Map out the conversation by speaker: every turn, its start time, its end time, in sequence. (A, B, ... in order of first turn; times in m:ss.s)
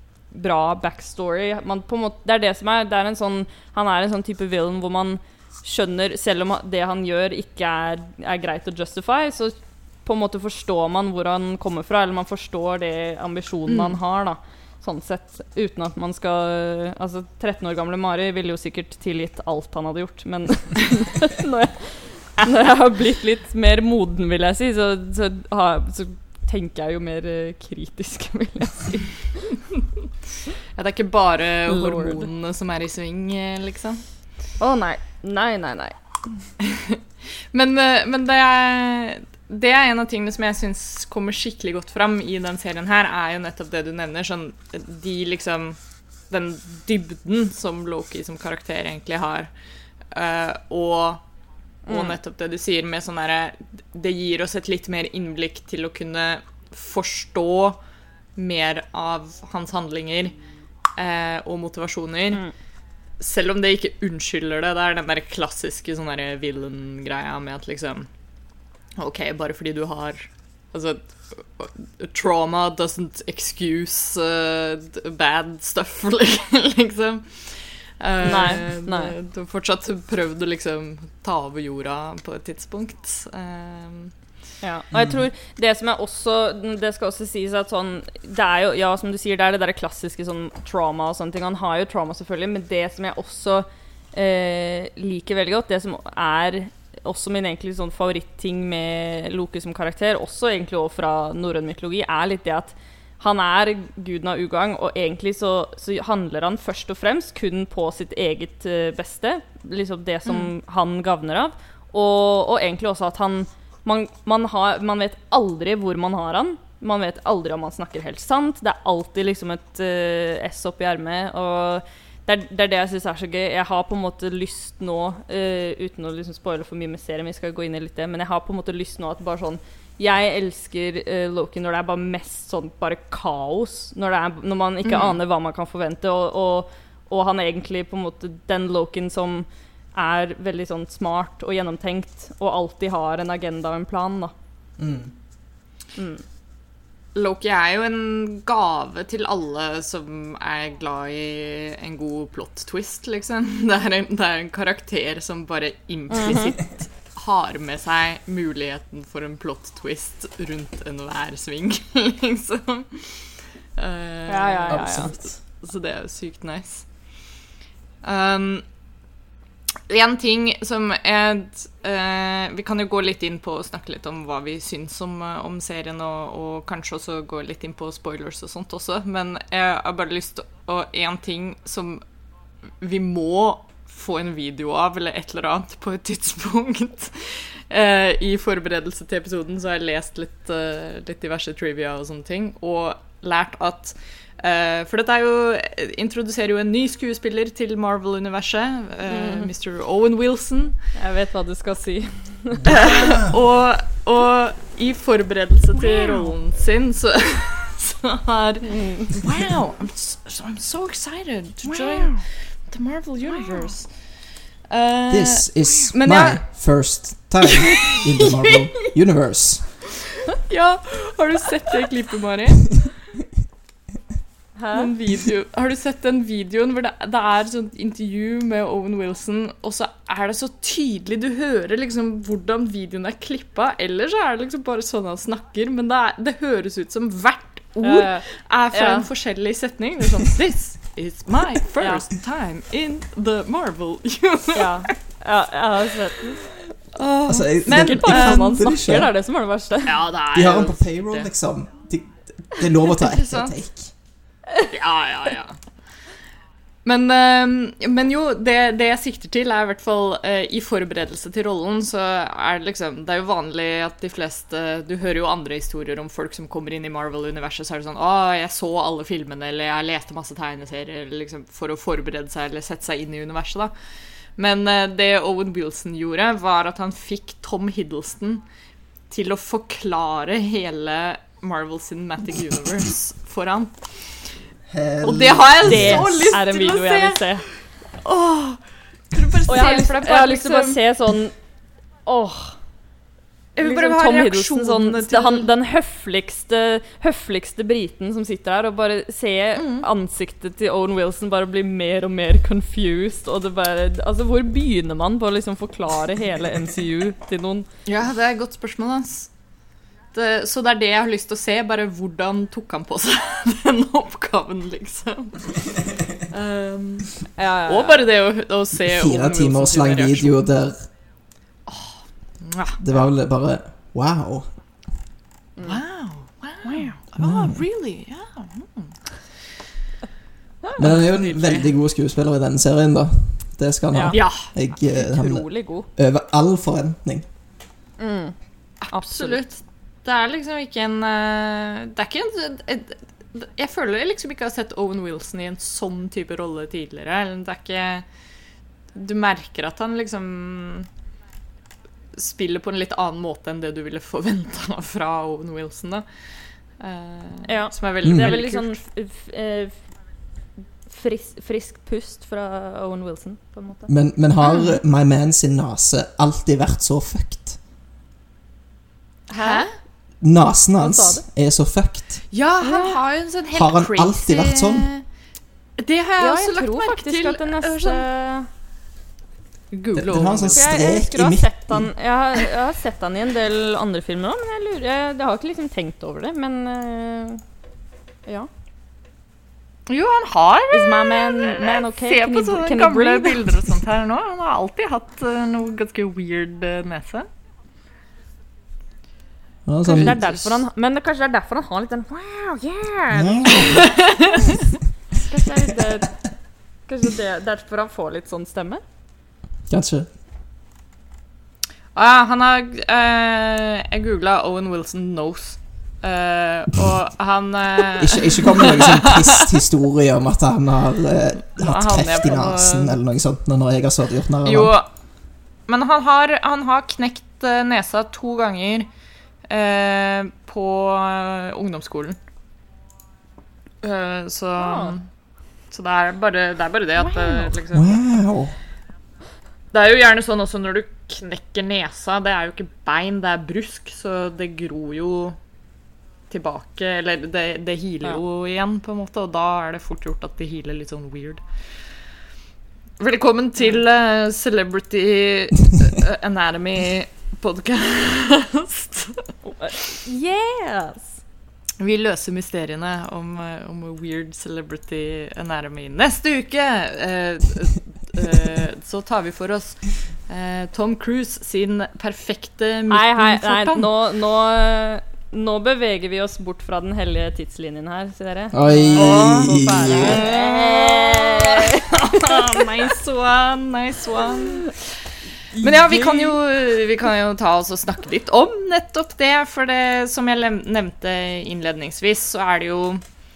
0:00.3-0:29.6 A
0:13.7-0:14.0 B
0:30.7-0:34.0 B
0:31.7-0:32.3 A
0:34.6-0:36.5 A
0:36.6-0:37.0 B
0:37.5-0:45.8 B
0:46.3-0:49.5 B
0:50.1-0:51.2 B
0:51.9-0:52.2 A
0:51.9-0:57.8 B
0:58.4-1:00.4 B
1:01.0-1:02.4 B
1:03.2-1:08.1 B
1:09.0-1:24.1 B
1:18.2-1:19.1 A
1:24.6-2:24.3 A
1:24.9-1:25.3 C
2:14.8-2:15.2 B
2:24.8-2:25.1 C
2:26.0-2:26.2 A
2:27.1-2:46.9 B
2:36.1-2:36.5 A
2:44.3-2:45.1 A
2:44.7-2:45.4 C
2:48.0-2:48.6 B
2:49.9-3:02.0 B
3:02.8-3:20.8 B
3:19.1-3:19.5 A
3:21.0-3:23.2 A
3:22.7-3:34.2 B
3:23.0-3:23.3 C
3:25.8-3:26.3 A
3:28.7-3:29.1 A
3:31.7-3:32.2 A
3:33.2-3:33.7 A
3:34.7-3:37.0 B
3:35.1-3:39.8 C
3:37.6-3:38.9 B
3:40.5-3:43.0 B
3:44.6-3:44.9 A
3:44.7-4:04.9 B
3:57.8-3:59.1 A
4:01.8-4:02.1 A
4:04.6-4:06.5 A
4:06.9-4:08.7 B
4:07.3-4:09.1 C
4:07.7-4:10.0 A
4:09.9-4:11.3 B
4:10.3-4:13.9 C
4:13.0-4:13.6 B
4:14.6-4:15.6 B
4:16.8-4:33.7 B
4:34.4-4:38.4 B
4:39.1-4:44.4 B
4:44.7-4:46.4 C
4:45.0-4:48.6 B
4:45.7-4:47.4 A
4:49.1-4:50.8 B
4:49.5-4:51.4 A
4:52.0-4:52.6 A
4:53.6-4:55.5 B
4:53.6-5:07.7 A
4:59.6-4:59.8 B
5:07.9-5:09.3 B
5:10.1-5:15.7 B
5:16.3-5:20.5 B
5:17.4-5:18.0 A
5:18.7-5:20.9 C
5:21.7-5:22.8 B
5:22.8-5:24.5 C
5:25.6-5:29.0 B
5:26.6-5:27.0 A
5:27.2-5:27.6 C
5:30.7-5:31.7 B
5:30.8-5:37.2 C
5:33.9-5:35.9 A
5:34.1-5:34.5 B
5:38.0-5:38.4 A
5:38.9-5:48.0 B
5:38.9-5:39.4 A
5:49.0-5:50.9 B
5:52.1-5:58.8 B
5:57.4-5:59.8 A
5:58.0-5:58.3 C
6:00.9-6:03.9 A
6:03.9-6:07.6 C
6:04.4-6:04.8 B
6:09.3-6:09.7 A
6:09.4-6:09.8 B
6:10.2-6:12.3 C
6:10.8-6:11.2 A
6:12.3-6:15.0 B
6:12.6-6:13.0 A
6:13.5-6:14.9 C
6:15.8-6:18.0 B
6:16.2-6:18.5 A
6:19.7-6:20.6 B
6:20.0-6:21.9 C
6:20.5-6:27.4 A
6:29.9-6:37.3 B
6:30.7-6:33.6 A
6:39.7-6:40.6 C
6:39.8-6:44.6 A
6:43.1-6:43.9 C
6:43.6-6:44.5 B
6:45.2-6:46.2 A
6:46.9-6:48.8 A
6:49.7-6:50.1 C
6:52.0-6:59.5 B
6:58.0-7:04.8 C
7:01.6-7:03.0 B
7:04.4-7:05.0 B
7:05.7-7:08.9 B
7:09.5-7:12.2 B
7:13.8-7:15.0 B
7:14.6-7:15.0 A
7:15.7-7:18.0 B
7:17.0-7:17.5 A
7:17.7-7:18.6 C
7:19.7-7:25.4 B
7:26.3-7:31.4 B
7:33.0-7:39.3 B
7:39.4-7:41.2 A
7:41.8-7:53.9 B
7:52.9-8:02.9 A
7:58.5-8:00.2 C
7:58.9-8:05.1 B
8:05.6-8:06.4 A
8:05.6-8:13.0 B